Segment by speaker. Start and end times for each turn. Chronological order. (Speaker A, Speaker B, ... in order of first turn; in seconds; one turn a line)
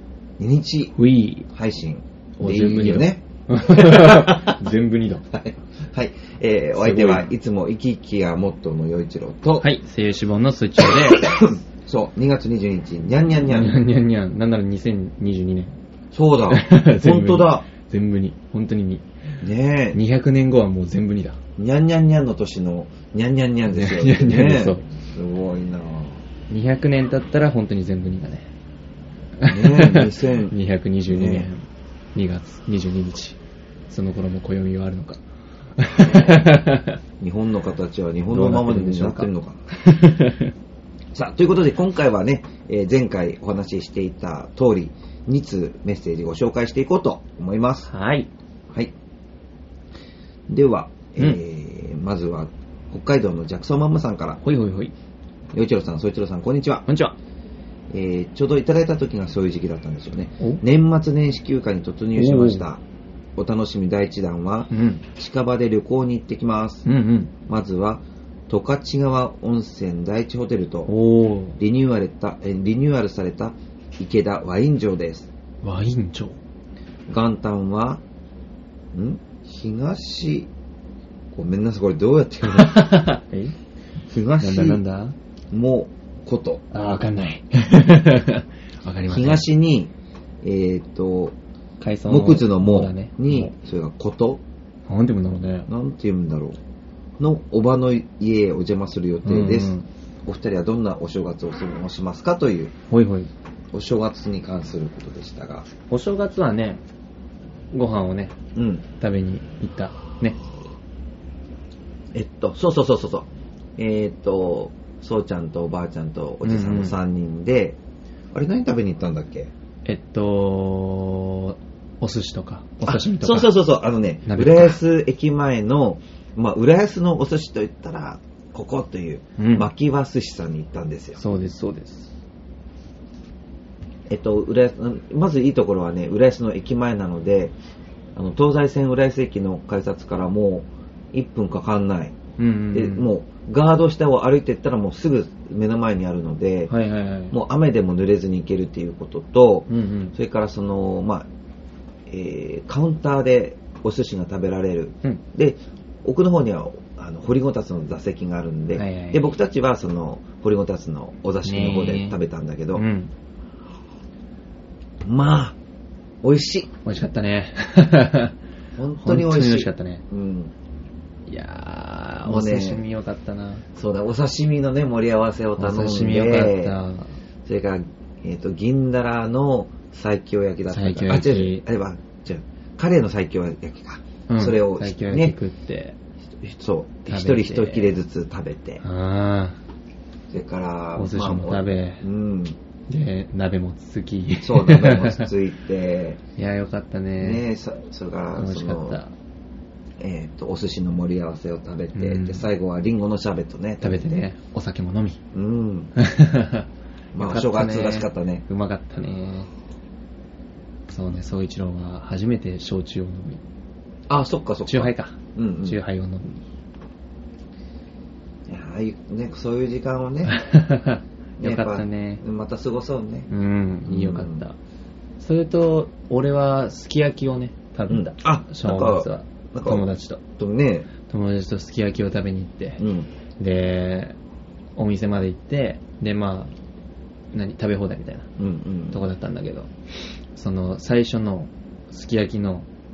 Speaker A: 0.4-0.9
Speaker B: 1.0-1.5
Speaker A: 1.5-4.5
Speaker B: 2.4-5.3
Speaker A: 5.3-9.7
Speaker B: 6.8-7.3
Speaker B: 9.6-11.3
Speaker A: 10.8-13.8
Speaker B: 13.4-15.7
Speaker A: 16.1-17.7
Speaker B: 16.5-19.0
Speaker A: 19.4-20.0
Speaker B: 19.9-21.4
Speaker A: 21.6-26.2
Speaker B: 23.6-24.8
Speaker B: 26.5-28.5
Speaker B: 29.4-31.6
Speaker A: 29.4-30.6
Speaker A: 31.1-31.5
Speaker B: 32.1-33.4
Speaker B: 33.9-35.2
Speaker B: 35.8-37.0
Speaker A: 35.9-36.5
Speaker A: 37.2-39.7
Speaker B: 38.3-40.5
Speaker A: 41.1-47.9
Speaker B: 47.9-48.3
Speaker A: 50.5-54.4
Speaker B: 54.4-54.9
Speaker A: 55.5-56.9
Speaker B: 56.9-57.1
Speaker A: 57.9-62.8
Speaker B: 62.1-62.6
Speaker A: 63.4-70.9
Speaker B: 64.7-65.0
Speaker B: 66.8-67.3
Speaker B: 70.9-71.6
Speaker A: 71.5-75.3
Speaker B: 75.6-76.4
Speaker A: 77.1-78.0
Speaker A: 78.9-80.5
Speaker A: 81.3-83.1
Speaker B: 82.5-83.5
Speaker A: 84.1-84.8
Speaker B: 84.4-85.2
Speaker A: 85.5-86.6
Speaker B: 86.7-89.5
Speaker A: 89.0-89.9
Speaker A: 90.4-91.4
Speaker B: 91.8-93.5
Speaker A: 92.1-94.4
Speaker B: 94.9-95.7
Speaker A: 95.7-96.6
Speaker A: 97.2-99.7
Speaker B: 99.2-99.9
Speaker A: 100.3-102.7
Speaker B: 102.9-103.3
Speaker A: 103.7-105.8
Speaker B: 105.8-106.8
Speaker B: 107.7-108.4
Speaker A: 108.5-108.9
Speaker B: 108.9-110.4
Speaker A: 112.1-117.8
Speaker B: 116.4-117.0
Speaker A: 118.3-119.5
Speaker B: 119.8-123.6
Speaker A: 122.8-131.2
Speaker B: 124.2-124.8
Speaker B: 129.4-129.7
Speaker B: 131.2-132.1
Speaker A: 134.1-137.5
Speaker A: 138.2-146.7
Speaker B: 142.4-143.1
Speaker B: 146.7-147.4
Speaker A: 147.3-151.3
Speaker B: 149.7-150.2
Speaker A: 152.1-162.8
Speaker B: 158.7-159.2
Speaker B: 161.4-162.2
Speaker B: 162.7-163.1
Speaker A: 165.0-165.6
Speaker A: 166.2-166.8
Speaker B: 166.8-168.3
Speaker A: 168.8-170.5
Speaker B: 169.0-170.0
Speaker B: 171.3-173.7
Speaker A: 172.2-172.8
Speaker A: 173.7-176.8
Speaker B: 175.6-177.1
Speaker A: 177.4-185.3
Speaker B: 180.7-181.6
Speaker B: 184.3-186.0
Speaker A: 186.4-188.8
Speaker B: 187.1-188.0
Speaker B: 188.8-189.6
Speaker A: 190.3-192.6
Speaker B: 190.9-192.0
Speaker B: 192.9-195.3
Speaker A: 194.4-196.2
Speaker B: 196.4-197.5
Speaker A: 197.2-199.0
Speaker B: 198.4-199.1
Speaker A: 200.0-204.2
Speaker B: 201.9-202.5
Speaker B: 203.8-205.2
Speaker A: 205.3-205.9
Speaker B: 206.0-209.5
Speaker A: 207.2-208.4
Speaker B: 210.9-213.4
Speaker A: 214.1-215.8
Speaker B: 214.7-216.4
Speaker A: 218.5-220.3
Speaker B: 220.3-222.2
Speaker A: 221.4-223.3
Speaker B: 223.3-224.6
Speaker A: 223.8-224.5
Speaker B: 225.2-230.2
Speaker A: 227.9-231.0
Speaker B: 231.0-232.8
Speaker A: 232.8-233.1
Speaker B: 233.4-234.2
Speaker B: 234.8-236.5
Speaker B: 237.3-238.3
Speaker A: 238.4-239.0
Speaker B: 238.9-239.7
Speaker B: 240.3-242.7